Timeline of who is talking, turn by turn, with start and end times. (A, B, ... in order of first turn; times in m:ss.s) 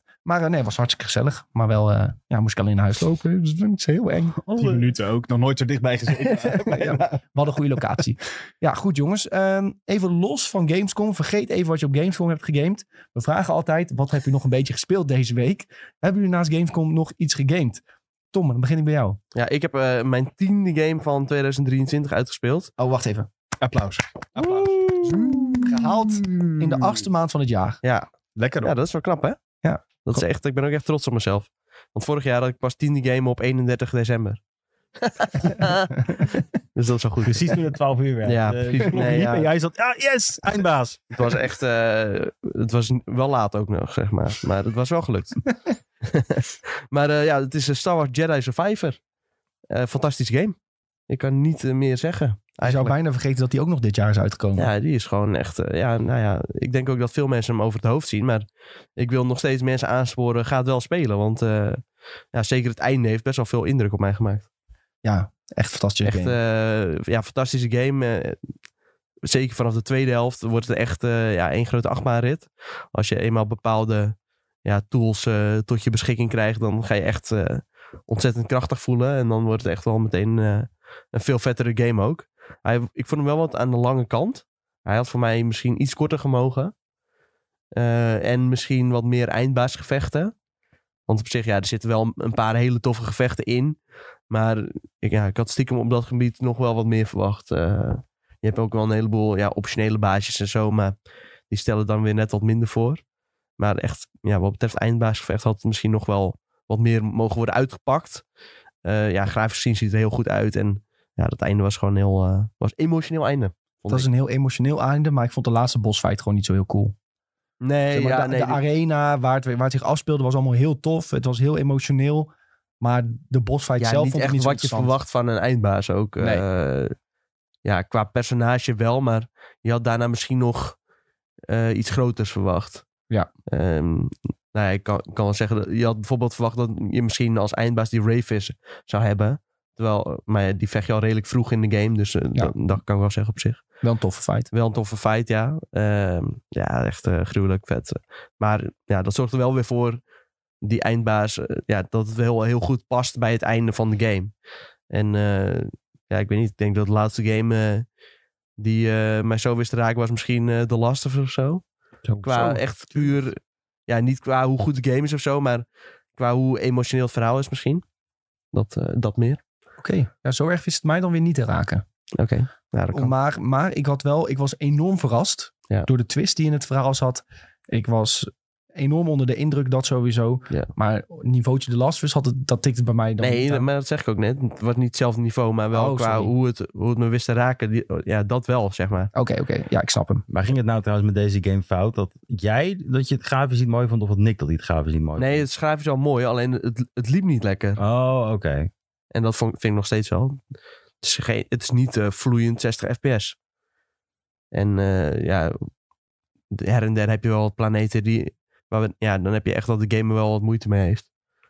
0:00.2-0:04.4 A
0:04.4-0:04.9 B
0:04.6-0:07.2 C
0:06.5-0:19.2 A
0:19.3-0:22.7 D
0:22.8-0:23.3 A
0:23.6-0:27.0 C
0:24.4-0:25.9 A
0:26.6-0:27.8 A
0:27.8-0:28.1 D
0:28.4-0:28.7 C
0:28.6-0:29.4 D
0:29.6-0:30.2 A
0:30.0-0:34.4 D
0:35.0-0:37.6 D
0:37.2-0:41.4 B
0:38.2-0:39.5 D
0:41.2-0:45.5 D
0:46.0-0:49.0 D
0:49.7-0:50.6 D
0:51.1-0:53.0 D
0:52.6-0:54.7 A
0:54.6-0:58.4 D
0:59.0-1:04.5 D
1:05.0-1:06.4 A
1:06.0-1:08.4 D
1:09.2-1:26.7 D
1:27.8-1:30.3 D
1:31.1-1:33.8 D
1:34.3-1:40.9 D
1:41.5-1:43.0 D
1:43.6-1:48.2 D
1:48.8-1:54.1 D
1:53.9-1:57.0 A
1:57.6-1:58.6 D
1:57.9-2:04.9 A
2:03.8-2:07.0 D
2:07.6-2:10.8 D
2:11.5-2:12.9 D
2:13.5-2:23.7 D
2:23.8-2:24.5 A
2:24.5-2:30.0 D
2:30.6-2:34.4 D
2:34.9-2:37.9 D
2:38.6-2:41.6 D
2:42.1-2:43.1 A
2:42.2-2:47.8 D
2:48.5-2:49.4 D
2:49.8-2:51.8 A
2:52.2-2:53.1 D
2:52.9-3:03.7 A
3:03.2-3:09.1 D
3:05.7-3:06.3 A
3:09.1-3:10.2 A
3:10.3-3:15.4 B
3:15.2-3:17.8 D
3:17.8-3:18.7 B
3:19.1-3:20.4 D
3:21.0-3:23.4 D
3:24.5-3:25.7 D
3:26.5-3:31.1 D